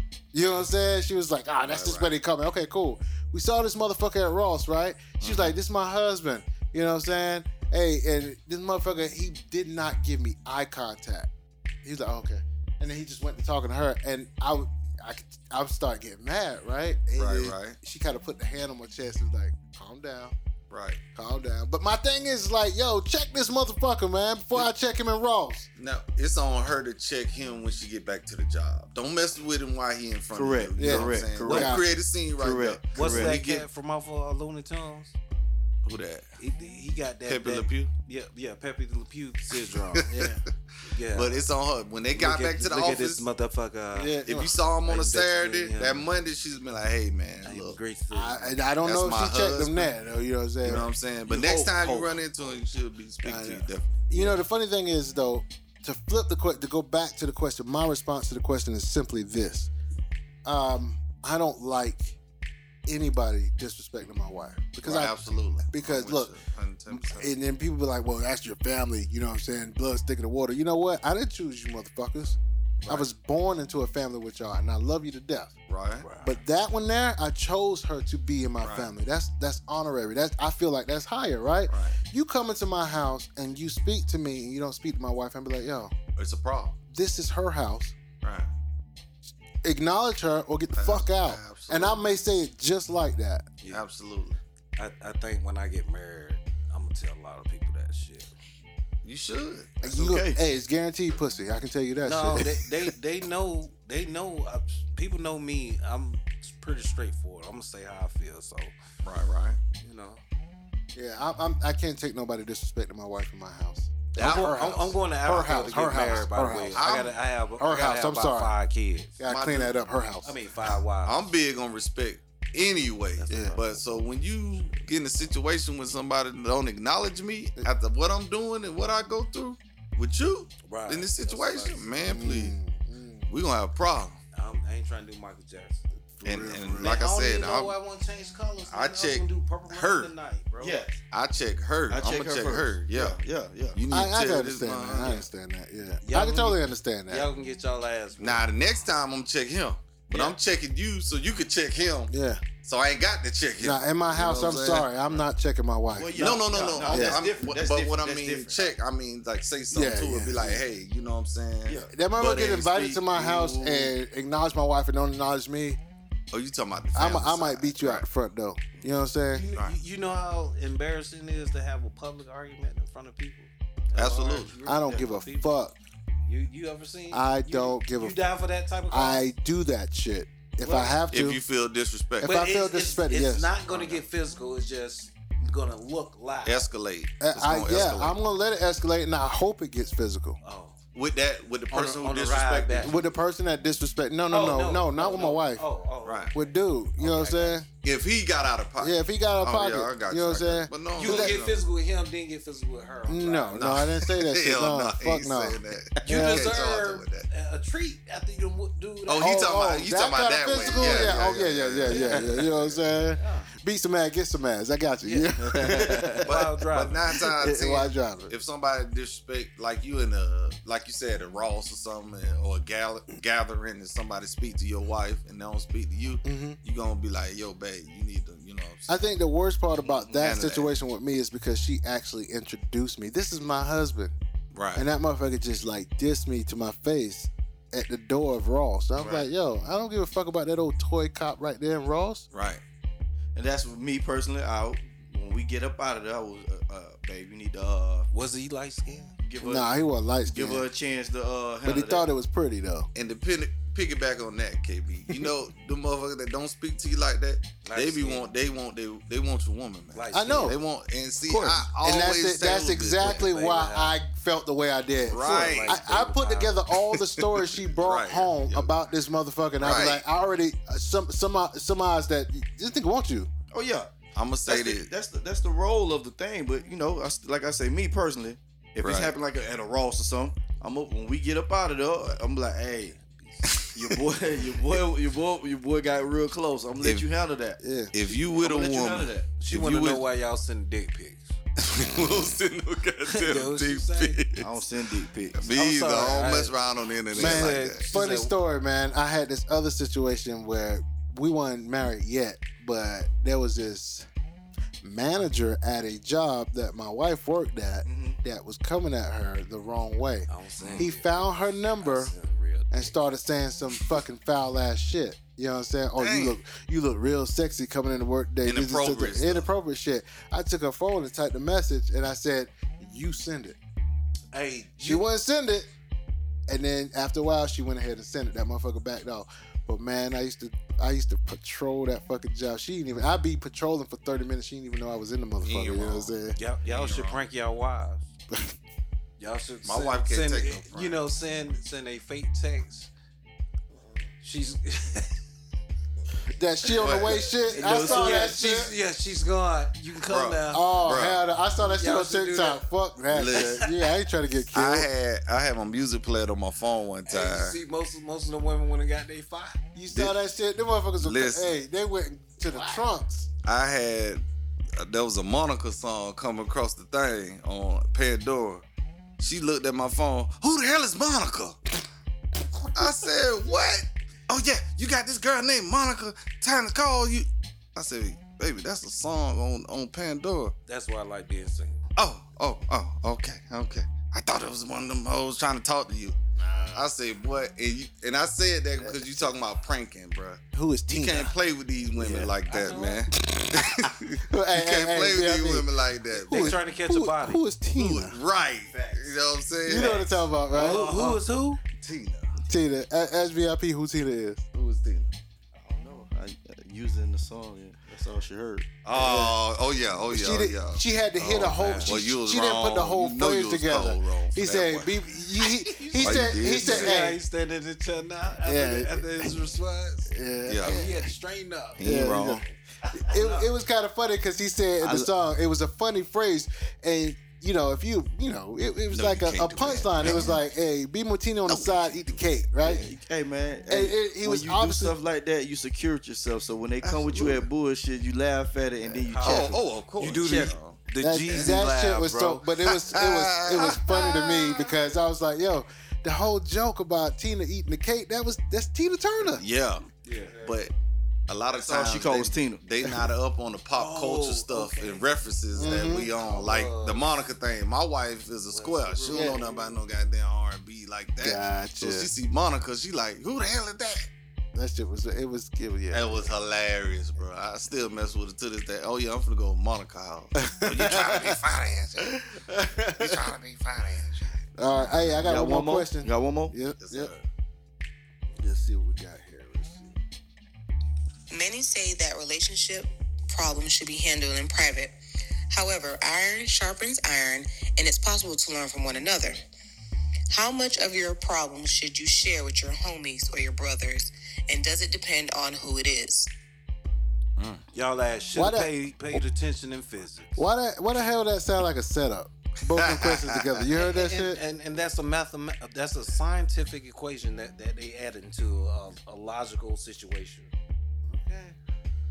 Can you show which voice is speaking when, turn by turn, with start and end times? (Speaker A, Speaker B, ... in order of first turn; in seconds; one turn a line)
Speaker A: 0.3-11.3
Speaker B: 1.6-2.1
Speaker B: 5.2-5.5
Speaker A: 11.8-20.3
Speaker B: 17.1-17.8
Speaker B: 20.7-21.0
Speaker A: 21.1-25.7
Speaker B: 25.8-33.6
Speaker C: 30.3-31.8
Speaker A: 30.8-31.9
Speaker C: 32.4-33.3
Speaker D: 32.9-35.2
Speaker B: 35.8-36.3
Speaker D: 36.4-40.1
Speaker B: 37.3-37.9
Speaker A: 40.1-40.4
Speaker D: 40.8-41.5
Speaker B: 41.1-43.2
Speaker D: 42.1-44.2
Speaker A: 43.9-44.5
Speaker B: 44.2-47.8
Speaker D: 44.8-46.1
Speaker D: 47.4-48.6
Speaker A: 48.1-50.9
Speaker B: 48.8-49.9
Speaker B: 50.6-54.2
Speaker C: 51.3-52.2
Speaker A: 53.2-59.7
Speaker A: 60.4-62.2
Speaker A: 62.9-66.3
Speaker B: 64.8-67.3
Speaker A: 66.9-75.5
Speaker B: 72.8-73.1
Speaker B: 75.7-76.1
Speaker D: 76.0-76.4
Speaker A: 76.2-85.9
Speaker B: 78.6-78.9
Speaker B: 81.7-82.0
Speaker B: 86.2-86.8
Speaker A: 86.9-87.9
Speaker B: 88.2-88.5
Speaker A: 89.6-93.5
Speaker B: 90.7-92.0
Speaker B: 93.7-94.4
Speaker D: 94.8-98.3
Speaker B: 99.0-99.8
Speaker A: 99.8-102.6
Speaker C: 99.9-100.4
Speaker D: 102.0-108.7
Speaker B: 109.0-109.6
Speaker D: 109.8-110.2
Speaker A: 110.9-116.9
Speaker B: 114.2-114.9
Speaker D: 114.2-119.2
Speaker B: 116.7-117.1
Speaker A: 117.6-118.5
Speaker A: 119.2-120.3
Speaker B: 119.3-119.7
Speaker D: 120.2-121.3
Speaker B: 121.0-132.5
Speaker D: 123.2-123.8
Speaker A: 123.3-123.6
Speaker D: 130.6-131.8
Speaker A: 132.0-133.3
Speaker B: 133.3-134.2
Speaker D: 134.3-135.8
Speaker A: 136.2-137.0
Speaker B: 136.2-137.8
Speaker D: 136.8-140.5
Speaker B: 138.7-143.2
Speaker C: 140.6-141.0
Speaker C: 141.9-143.8
Speaker B: 143.7-145.2
Speaker A: 143.9-147.3
Speaker D: 146.0-148.5
Speaker B: 148.2-152.1
Speaker A: 152.1-152.4
Speaker B: 152.6-155.2
Speaker A: 153.6-156.3
Speaker C: 155.9-158.7
Speaker B: 156.1-162.8
Speaker A: 156.9-157.2
Speaker A: 159.7-160.6
Speaker C: 161.6-161.9
Speaker A: 161.9-165.8
Speaker C: 162.6-163.9
Speaker B: 166.3-168.1
Speaker A: 166.9-169.4
Speaker D: 169.3-175.5
Speaker B: 173.9-174.5
Speaker A: 174.6-175.7
Speaker D: 176.2-179.3
Speaker A: 177.1-178.2
Speaker A: 178.9-181.4
Speaker D: 180.6-181.0
Speaker B: 181.1-182.3
Speaker A: 182.2-183.6
Speaker D: 182.2-186.7
Speaker B: 183.7-184.0
Speaker B: 186.4-188.2
Speaker A: 187.2-190.4
Speaker D: 190.4-190.8
Speaker B: 190.9-193.0
Speaker D: 191.7-193.0
Speaker A: 192.8-195.6
Speaker D: 194.3-197.6
Speaker B: 196.0-196.3
Speaker A: 196.3-197.7
Speaker B: 197.8-201.6
Speaker A: 198.8-201.5
Speaker D: 200.9-203.6
Speaker A: 203.1-206.6
Speaker B: 203.5-207.3
Speaker D: 206.0-209.5
Speaker B: 209.1-212.8
Speaker A: 209.2-216.3
Speaker D: 210.5-212.4
Speaker D: 213.1-213.5
Speaker D: 215.0-215.3
Speaker C: 215.4-216.3
Speaker D: 216.2-217.0
Speaker B: 216.2-229.1
Speaker A: 217.1-218.3
Speaker A: 226.2-226.6
Speaker A: 228.9-234.1
Speaker B: 229.9-230.7
Speaker B: 234.5-234.8
Speaker A: 234.8-242.2
Speaker C: 239.0-239.2
Speaker B: 242.3-242.6
Speaker C: 243.3-248.1
Speaker D: 248.1-249.1
Speaker C: 249.2-249.7
Speaker A: 249.4-250.6
Speaker C: 250.3-252.1
Speaker A: 251.6-252.9
Speaker B: 252.9-263.2
Speaker D: 257.6-258.3
Speaker D: 259.9-260.5
Speaker A: 260.1-260.6
Speaker C: 261.2-261.6
Speaker A: 261.8-273.3
Speaker D: 263.0-264.0
Speaker B: 265.1-265.8
Speaker D: 265.1-266.6
Speaker B: 266.9-268.7
Speaker B: 269.6-270.0
Speaker C: 273.5-273.9
Speaker B: 274.1-274.9
Speaker C: 274.5-283.0
Speaker B: 278.8-279.1
Speaker D: 282.9-283.5
Speaker B: 283.5-284.0
Speaker C: 283.7-289.3
Speaker B: 286.8-287.1
Speaker A: 287.6-287.9
Speaker B: 287.9-290.0
Speaker D: 289.4-291.4
Speaker B: 291.6-294.5
Speaker D: 293.1-294.2
Speaker C: 294.4-295.4
Speaker B: 295.3-297.9
Speaker D: 295.5-296.5
Speaker D: 297.1-298.3
Speaker A: 297.1-304.1
Speaker A: 304.8-312.1
Speaker C: 307.8-308.2
Speaker D: 310.3-313.0
Speaker A: 312.7-323.6
Speaker B: 316.0-316.4
Speaker B: 318.4-319.5
Speaker D: 324.3-325.1
Speaker A: 324.8-325.7
Speaker A: 326.5-336.4
Speaker B: 335.4-337.2
Speaker D: 336.3-338.1
Speaker D: 339.2-342.9
Speaker B: 339.6-341.0
Speaker D: 344.2-345.1
Speaker A: 346.3-348.7
Speaker B: 346.8-347.2
Speaker C: 347.5-348.4
Speaker D: 347.5-350.8
Speaker B: 350.1-351.2
Speaker A: 350.5-354.9
Speaker D: 351.6-352.7
Speaker B: 353.1-353.6
Speaker D: 353.2-353.9
Speaker B: 354.5-357.6
Speaker D: 357.1-359.6
Speaker A: 359.7-363.3
Speaker B: 361.0-361.5
Speaker D: 362.5-362.8
Speaker B: 363.4-364.2
Speaker B: 364.8-368.6
Speaker B: 369.2-371.6
Speaker B: 372.7-380.5
Speaker D: 380.7-381.8
Speaker B: 382.0-386.1
Speaker B: 386.7-396.6
Speaker C: 388.8-389.4
Speaker A: 390.5-391.3
Speaker C: 392.0-392.3
Speaker D: 392.4-393.0
Speaker A: 393.3-395.7
Speaker D: 396.1-397.4
Speaker A: 396.2-398.2
Speaker B: 397.8-400.1
Speaker C: 398.7-399.2
Speaker A: 399.6-401.2
Speaker D: 399.7-401.6
Speaker B: 401.8-402.4
Speaker A: 402.4-404.4
Speaker B: 404.5-405.1
Speaker C: 405.5-408.8
Speaker B: 408.8-414.9
Speaker A: 408.9-409.4
Speaker A: 409.9-417.2
Speaker D: 411.2-411.9
Speaker D: 415.4-422.2
Speaker B: 416.0-416.9
Speaker A: 418.4-419.4
Speaker A: 420.1-421.1
Speaker B: 420.5-420.8
Speaker B: 421.8-422.4
Speaker A: 421.8-432.9
Speaker C: 423.1-423.4
Speaker C: 424.8-425.1
Speaker B: 428.9-430.4
Speaker B: 431.4-432.2
Speaker C: 432.6-440.5
Speaker A: 433.7-434.9
Speaker B: 436.8-437.4
Speaker D: 439.1-442.4
Speaker B: 439.2-440.8
Speaker A: 441.0-449.4
Speaker B: 442.6-444.7
Speaker B: 449.2-449.9
Speaker D: 450.0-450.5
Speaker B: 450.4-450.7
Speaker B: 451.3-464.1
Speaker C: 451.5-452.6
Speaker D: 453.7-457.1
Speaker A: 455.6-456.1
Speaker D: 458.5-459.8
Speaker A: 459.1-459.4
Speaker A: 461.2-462.1
Speaker A: 464.5-466.3
Speaker B: 465.9-475.3
Speaker A: 470.4-471.4
Speaker A: 472.3-473.3
Speaker A: 474.5-477.1
Speaker C: 475.2-476.5
Speaker B: 476.8-477.2
Speaker A: 478.4-480.0
Speaker E: 481.3-484.9
Speaker E: 485.5-489.4
Speaker E: 490.3-496.3
Speaker B: 497.4-497.6
Speaker D: 497.7-500.4
Speaker A: 498.3-499.2
Speaker A: 500.4-504.4
Speaker B: 502.7-503.6
Speaker D: 503.7-510.5
Speaker D: 511.1-511.5